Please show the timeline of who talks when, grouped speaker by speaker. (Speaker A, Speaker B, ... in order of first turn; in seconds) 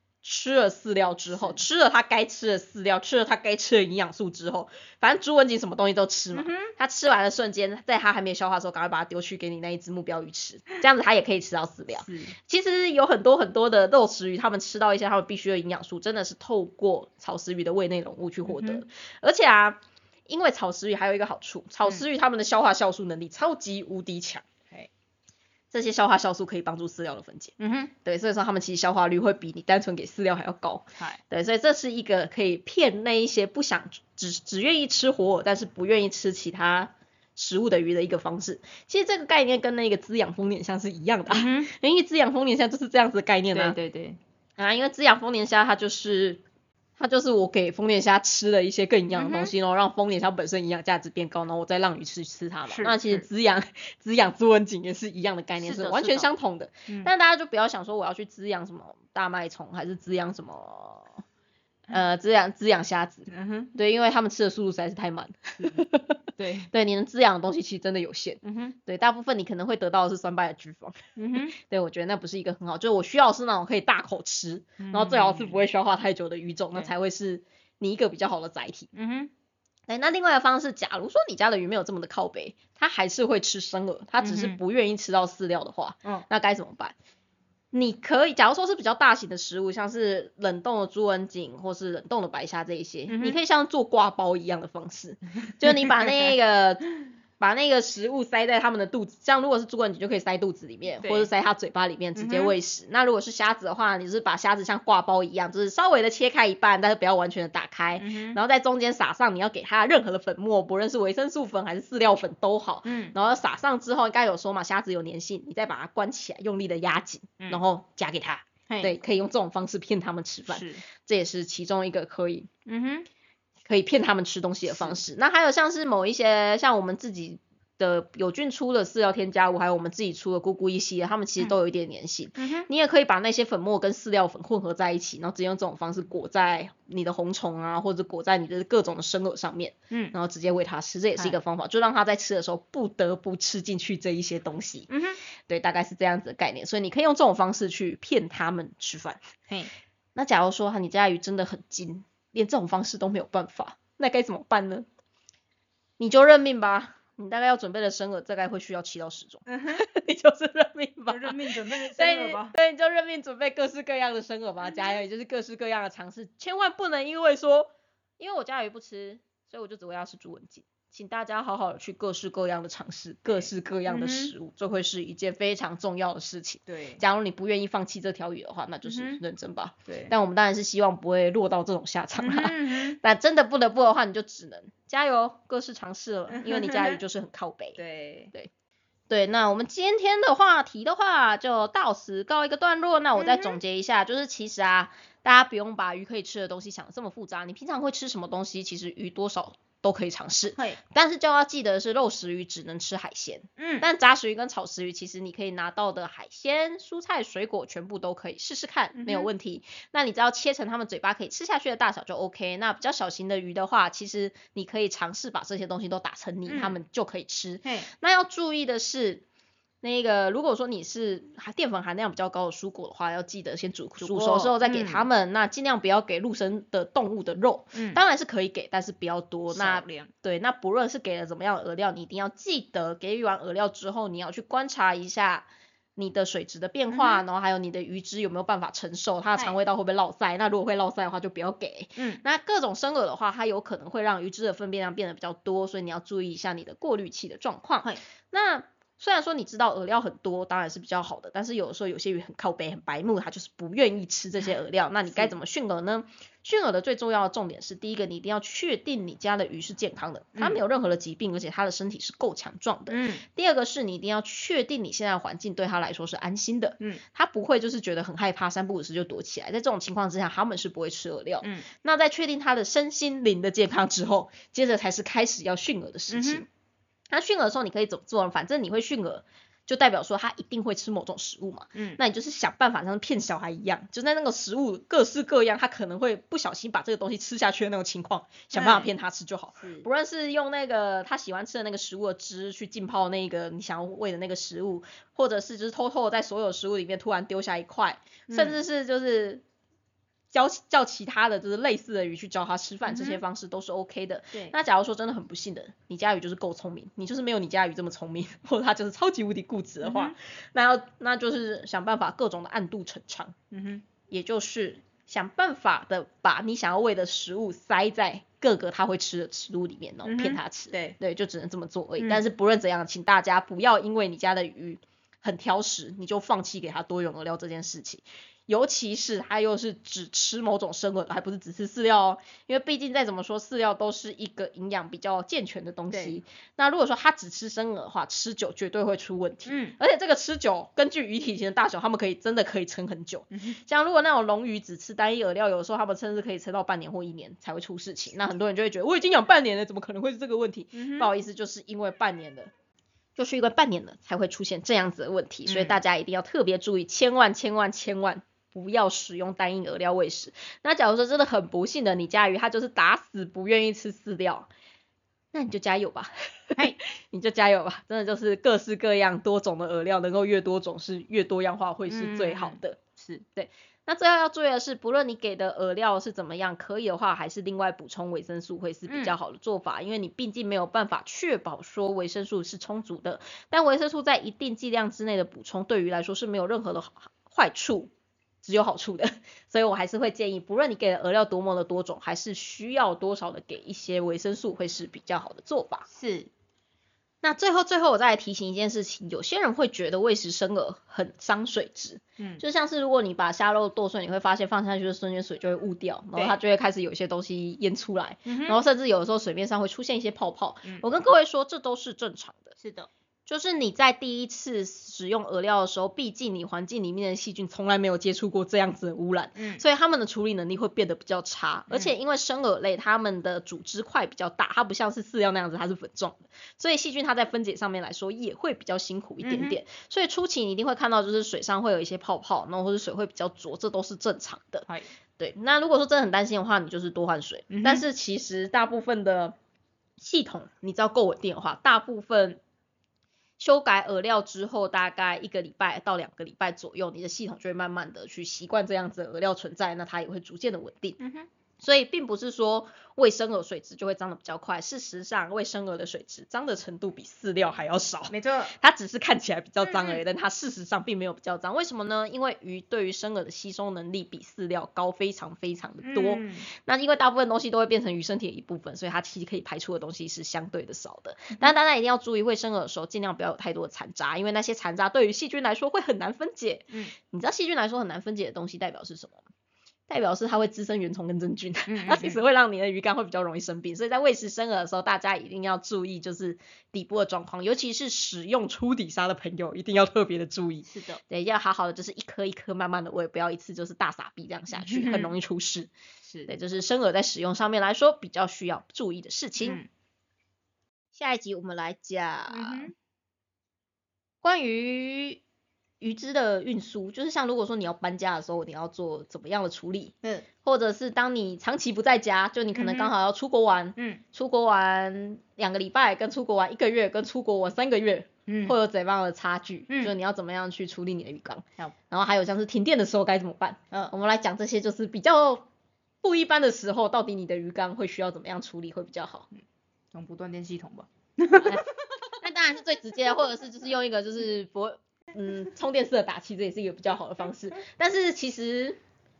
Speaker A: 0.2-24.4, 25.7-43.8, 44.6-46.4, 47.0-61.1, 61.9-71.0, 71.5-78.9, 79.9-86.9, 87.7-122.5, 123.7-144.9, 145.5-149.2, 150.1-154.8, 156.0-187.8, 189.1-219.2, 219.8-276.5, 277.1-299.4, 300.3-313.4, 314.1-352.5, 353.1-364.5, 365.3-372.8, 373.3-387.9, 388.4-395.9, 397.2-412.5, 413.3-434.7, 435.2-439.3, 440.0-442.4, 443.4-451.0, 451.6-479.2, 479.9-495.7, 496.3-499.6, 500.9-502.7, 504.2-505.2, 505.8-525.5, 526.0-529.3, 531.3-538.8
Speaker B: 1.3-1.6, 6.3-6.7, 11.9-12.3, 18.4-18.8, 27.6-27.9, 41.3-41.7, 43.5-44.2, 49.1-49.5, 52.7-53.2, 55.6-56.3, 63.3-63.7, 66.4-66.7, 68.4-68.8, 71.2-71.5, 74.8-75.6, 78.9-79.3, 84.2-84.6, 93.1-93.4, 95.6-96.3, 101.0-101.3, 102.2-102.5, 108.0-108.4, 112.8-113.1, 118.7-119.0, 120.5-120.8, 122.7-123.1, 124.7-125.0, 132.4-132.7, 144.9-145.2, 159.5-159.8, 161.1-162.5, 173.3-174.3, 176.7-177.0, 178.8-179.2, 179.9-180.1, 182.2-183.0, 186.3-187.0, 187.8-188.3, 193.1-193.6, 203.6-203.9, 208.9-209.3, 216.5-216.8, 217.6-217.9, 224.0-225.1, 227.7-228.0, 229.5-230.1, 236.9-237.2, 241.9-242.2, 255.1-255.3, 262.9-263.2, 271.4-271.7, 276.1-276.4, 281.7-282.0, 288.5-288.9, 289.6-289.9, 298.3-298.6, 302.8-303.2, 309.8-310.1, 313.5-313.8, 320.0-320.9, 322.0-322.2, 335.9-336.2, 339.4-339.8, 343.3-343.6, 350.7-351.1, 355.4-355.8, 371.9-373.2, 378.9-379.1, 395.9-396.3, 402.2-402.4, 408.2-408.6, 412.6-412.9, 419.4-419.6, 429.2-429.6, 437.5-437.8, 451.0-451.3, 458.1-458.5, 459.6-460.0, 465.8-466.5, 481.7-482.2, 490.7-491.0, 494.5-495.1, 496.0-496.3, 499.4-499.7, 502.3-502.7, 512.5-512.9, 513.8-514.0, 518.3-518.5, 529.9-531.6